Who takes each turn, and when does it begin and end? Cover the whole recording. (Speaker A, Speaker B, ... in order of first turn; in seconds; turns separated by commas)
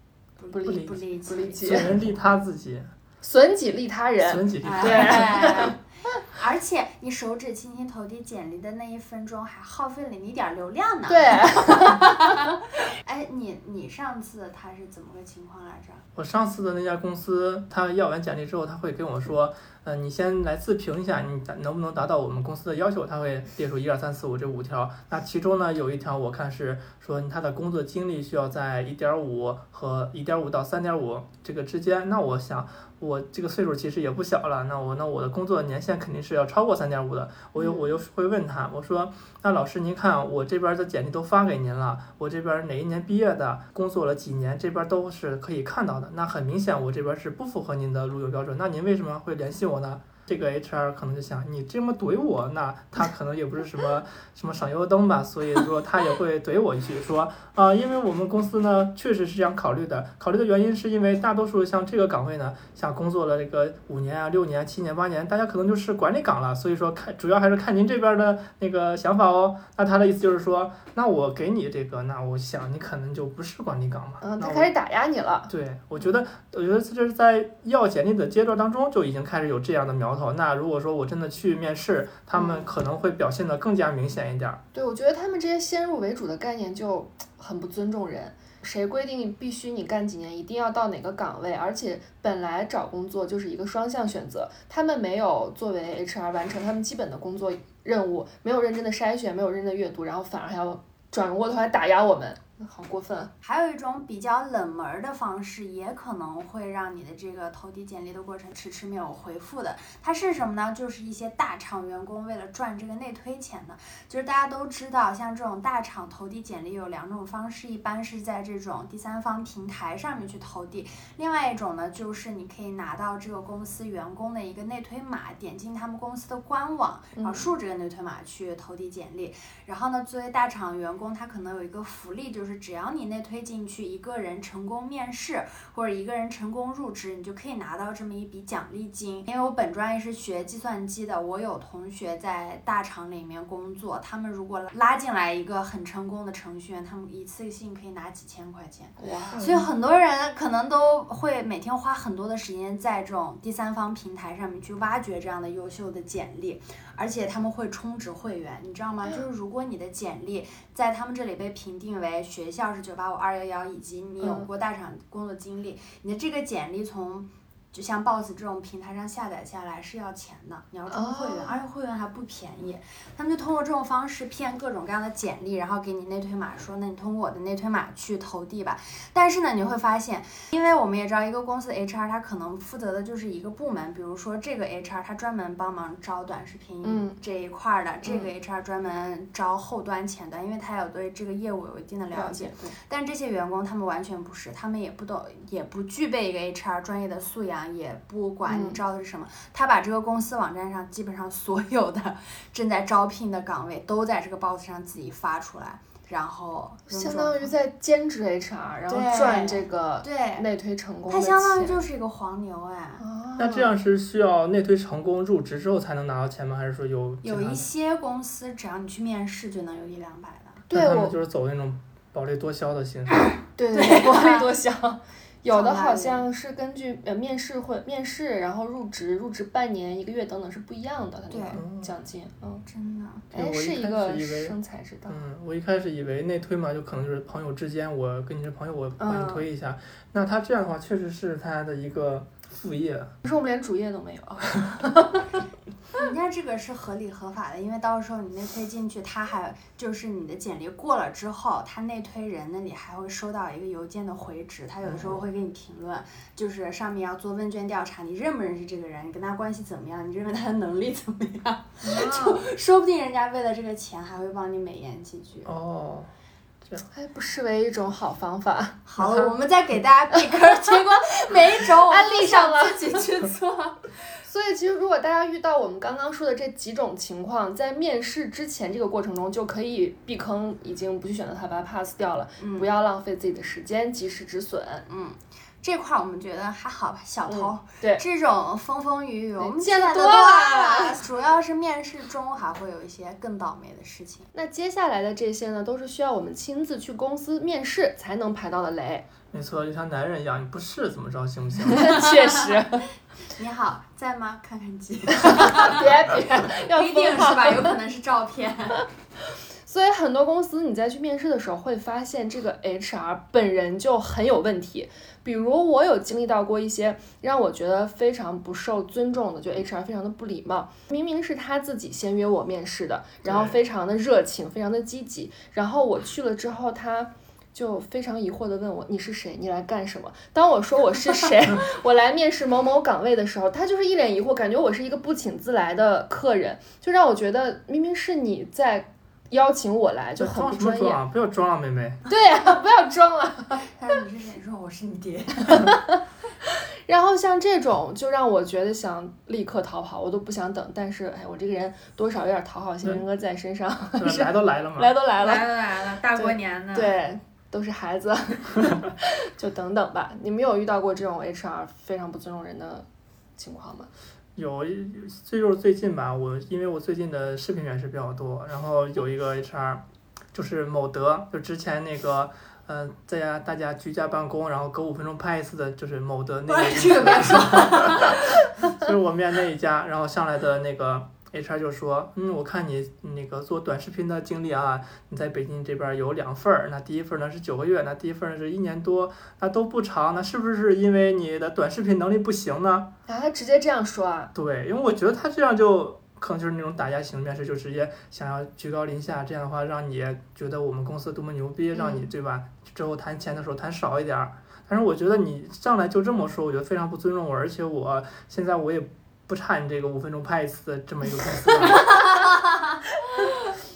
Speaker A: 0.4-1.9, Speaker B: 0.5-1.9, Speaker C: 1.6-2.9, Speaker B: 3.2-5.7, Speaker C: 4.2-5.6, Speaker A: 4.6-16.0, Speaker B: 11.1-12.5, Speaker C: 16.1-74.7, Speaker B: 37.5-37.9, Speaker B: 74.2-75.5, Speaker C: 75.5-84.6, Speaker B: 82.3-82.7, Speaker B: 84.7-103.3, Speaker A: 103.4-207.5, Speaker B: 127.2-127.5, Speaker B: 149.0-149.6, Speaker B: 164.2-164.5, Speaker B: 170.9-171.6, Speaker B: 186.8-187.2, Speaker B: 188.0-188.3, Speaker B: 192.1-192.8, Speaker B: 198.4-198.8, Speaker B: 206.9-211.8, Speaker A: 208.9-210.4, Speaker A: 211.1-213.0, Speaker B: 213.0-213.7, Speaker C: 213.4-217.7, Speaker A: 217.2-220.6, Speaker B: 220.7-221.1, Speaker C: 220.7-223.3, Speaker B: 223.6-232.6, Speaker A: 223.7-224.5, Speaker A: 225.5-226.3, Speaker A: 231.3-231.6, Speaker C: 231.5-231.9, Speaker A: 232.7-233.3, Speaker C: 233.3-234.6, Speaker B: 233.3-235.2, Speaker C: 235.1-243.1, Speaker B: 239.0-239.5, Speaker B: 243.2-245.3, Speaker A: 245.9-265.5, Speaker C: 254.8-255.2, Speaker B: 261.8-262.4, Speaker C: 265.4-266.1, Speaker B: 266.9-269.3, Speaker A: 268.9-273.9, Speaker B: 271.9-272.9, Speaker B: 274.2-284.9, Speaker A: 282.4-282.7, Speaker A: 284.9-294.3, Speaker B: 287.3-288.0, Speaker B: 289.4-291.0, Speaker B: 294.3-299.1, Speaker C: 299.3-301.9, Speaker B: 301.7-302.9, Speaker A: 301.8-302.6, Speaker A: 303.3-308.8, Speaker B: 305.2-307.7, Speaker B: 309.6-341.0, Speaker C: 323.2-323.6, Speaker C: 340.2-342.0, Speaker B: 342.1-343.7, Speaker A: 343.7-345.7, Speaker B: 345.5-346.0, Speaker B: 346.9-355.5, Speaker C: 354.0-354.9, Speaker A: 355.2-356.9, Speaker B: 356.1-362.9, Speaker B: 363.4-363.9, Speaker C: 364.4-392.9, Speaker A: 376.5-378.4, Speaker B: 393.1-394.3, Speaker C: 394.3-411.9, Speaker B: 401.7-402.1, Speaker B: 411.6-412.0